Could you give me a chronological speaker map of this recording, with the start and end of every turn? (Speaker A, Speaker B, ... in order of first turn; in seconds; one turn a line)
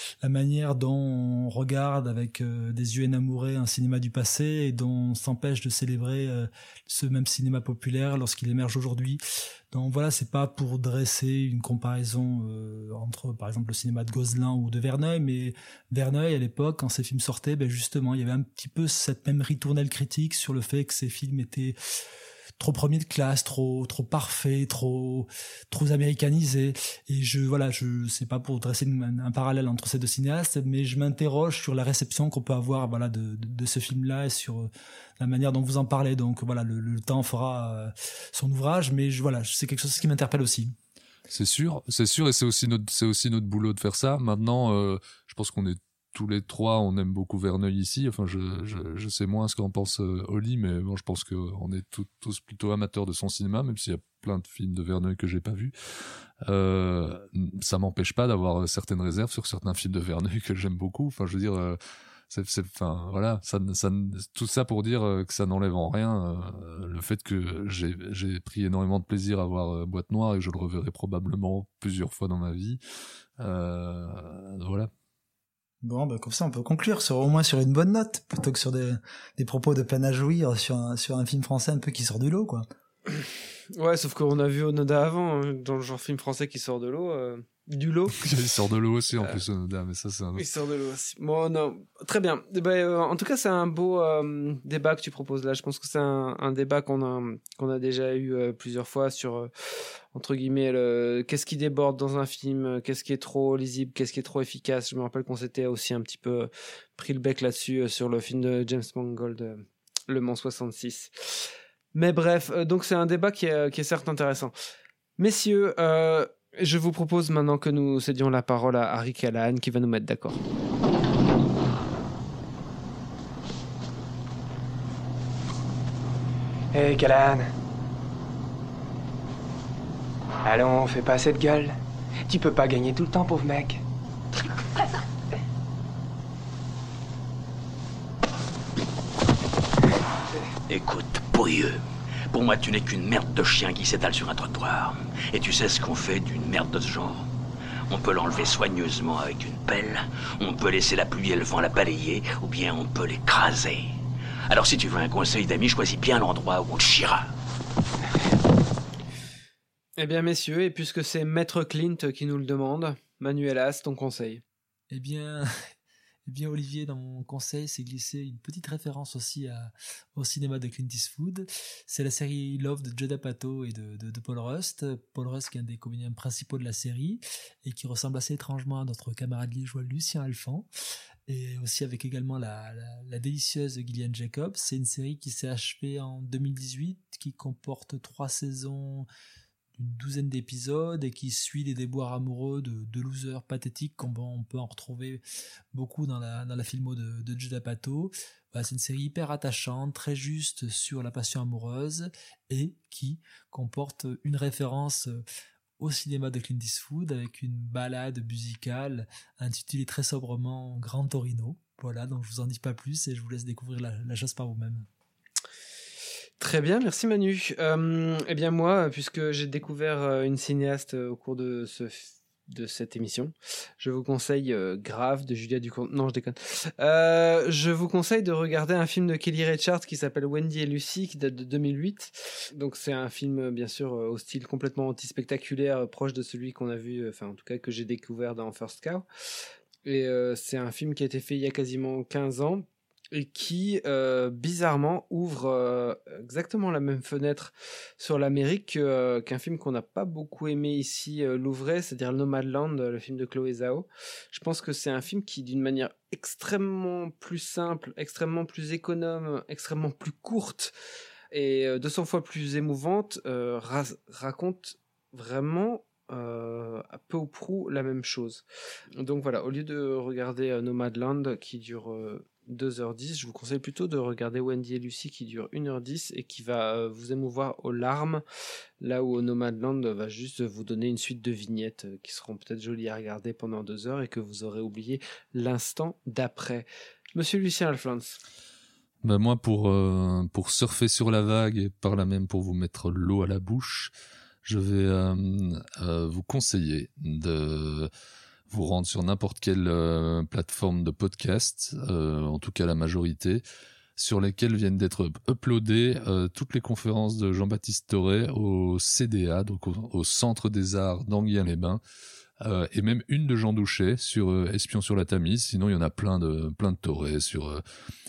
Speaker A: 0.2-21.8
Speaker A: 22.6-40.8
Speaker B: 41.3-55.7
Speaker B: 56.4-61.8
Speaker B: 62.3-72.8
Speaker B: 73.4-74.9
Speaker A: 75.8-82.7
Speaker C: 83.8-88.2
Speaker B: 88.2-90.5
Speaker C: 90.4-99.5
Speaker C: 100.1-114.5
Speaker C: 115.2-120.4
Speaker D: 126.7-127.5
Speaker D: 130.4-131.8
Speaker D: 132.3-133.8
Speaker E: 140.7-141.8
Speaker E: 142.3-147.3
Speaker E: 147.9-153.9
Speaker E: 154.5-157.3
Speaker C: 160.0-164.4
Speaker A: 164.9-165.5
Speaker A: 166.3-180.7
Speaker A: 181.3-189.1
Speaker A: 189.8-195.2
Speaker A: 195.7-205.2
Speaker A: 205.8-214.9
Speaker C: 216.4-239.1
Speaker C: 239.8-260.7
Speaker C: 261.3-268.4
Speaker C: 269.0-278.2
Speaker C: 278.8-288.2
Speaker B: 289.0-293.9
Speaker B: 294.4-297.9
Speaker B: 298.5-303.4
Speaker B: 304.0-311.8
Speaker B: 312.4-317.6